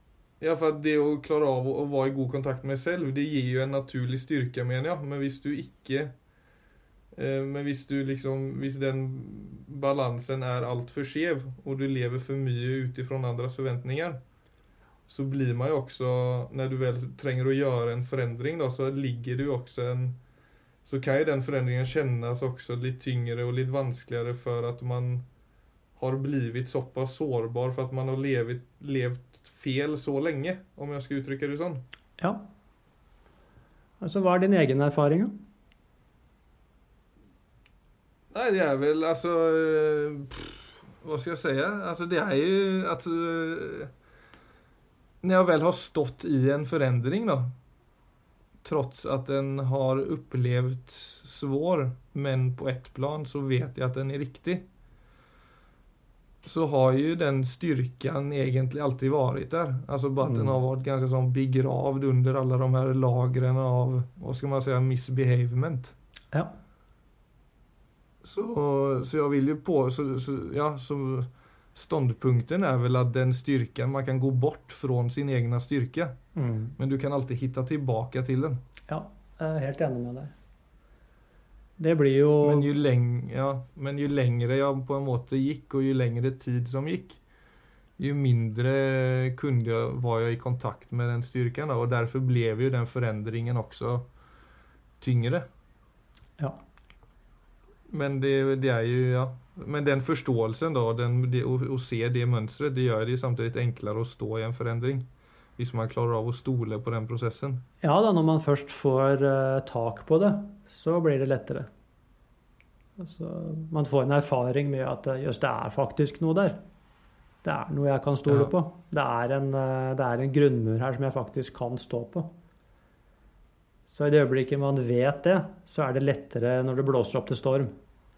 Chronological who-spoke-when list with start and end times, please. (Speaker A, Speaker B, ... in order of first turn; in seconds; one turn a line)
Speaker A: 0.4-6.1
Speaker A: 7.1-14.2
Speaker A: 15.1-20.2
Speaker A: 20.9-25.2
Speaker A: 26.0-31.8
Speaker B: 32.2-32.4
Speaker B: 34.0-35.4
Speaker A: 38.3-43.9
Speaker A: 45.2-47.5
Speaker A: 48.6-54.7
Speaker A: 56.4-66.0
Speaker B: 60.2-60.6
Speaker A: 68.2-76.2
Speaker B: 76.3-76.8
Speaker A: 76.8-78.6
Speaker B: 78.9-80.3
Speaker B: 81.8-82.7
Speaker A: 82.4-87.2
Speaker A: 88.0-94.1
Speaker A: 95.0-95.5
Speaker A: 97.9-107.6
Speaker B: 107.8-111.7
Speaker B: 113.0-116.6
Speaker B: 117.4-122.3
Speaker A: 118.3-118.5
Speaker B: 123.9-127.7